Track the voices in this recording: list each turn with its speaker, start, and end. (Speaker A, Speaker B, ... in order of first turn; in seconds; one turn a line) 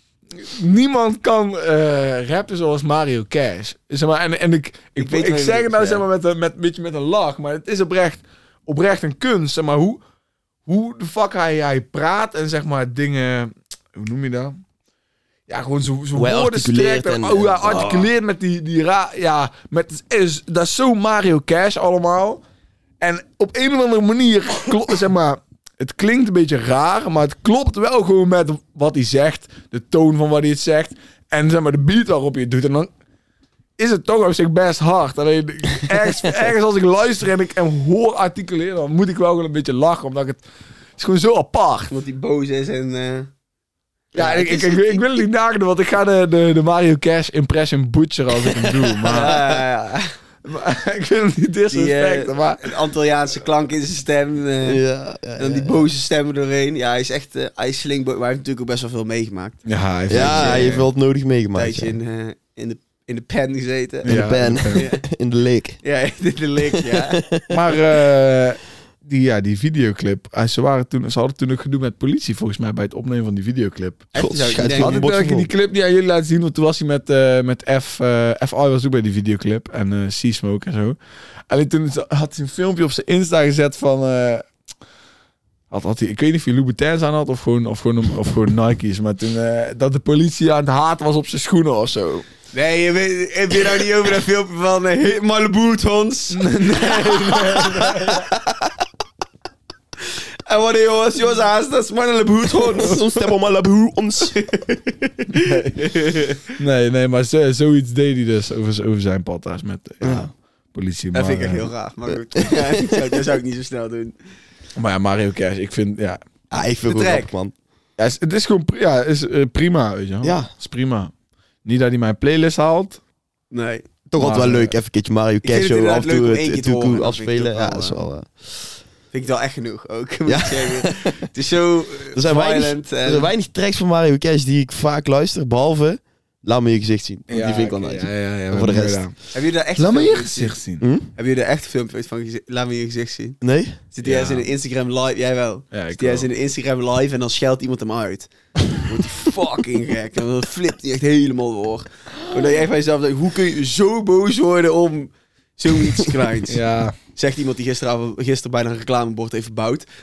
Speaker A: 0.4-10.0
Speaker B: 5.0-6.0
Speaker A: 10.7-14.6
Speaker A: 15.5-22.4
Speaker C: 16.1-18.1
Speaker A: 23.0-32.9
Speaker A: 33.8-40.4
Speaker A: 41.0-41.9
Speaker B: 41.9-43.3
Speaker B: 44.1-45.1
Speaker A: 44.1-49.6
Speaker B: 49.0-50.1
Speaker A: 50.4-52.7
Speaker B: 51.7-54.8
Speaker C: 54.6-55.8
Speaker B: 55.4-59.6
Speaker A: 59.6-60.9
Speaker C: 60.1-61.9
Speaker B: 60.2-60.8
Speaker B: 61.5-64.2
Speaker A: 64.0-64.8
Speaker C: 64.0-65.8
Speaker B: 64.7-65.0
Speaker B: 65.8-67.2
Speaker C: 66.8-67.5
Speaker A: 67.5-81.0
Speaker B: 74.1-75.0
Speaker C: 74.2-75.5
Speaker A: 81.5-84.4
Speaker A: 85.7-92.2
Speaker B: 92.5-98.3
Speaker A: 96.3-98.3
Speaker B: 100.5-103.3
Speaker C: 102.5-104.3
Speaker B: 104.3-106.4
Speaker A: 105.4-105.7
Speaker A: 106.6-111.7
Speaker C: 110.0-110.3
Speaker B: 111.1-114.1
Speaker C: 112.4-112.8
Speaker A: 114.8-116.2
Speaker C: 116.5-117.5
Speaker B: 116.8-117.3
Speaker A: 118.0-121.1
Speaker C: 120.2-120.5
Speaker A: 121.6-123.0
Speaker B: 123.5-123.9
Speaker C: 124.1-128.3
Speaker A: 124.2-124.7
Speaker B: 125.4-128.0
Speaker B: 129.1-133.3
Speaker C: 130.3-131.1
Speaker C: 132.1-139.0
Speaker A: 137.3-139.2
Speaker B: 139.3-140.6
Speaker A: 139.8-140.8
Speaker C: 140.8-141.1
Speaker B: 141.2-143.4
Speaker C: 143.4-143.8
Speaker B: 143.9-156.6
Speaker A: 144.0-144.5
Speaker A: 145.7-146.3
Speaker A: 156.5-156.9
Speaker B: 157.2-159.8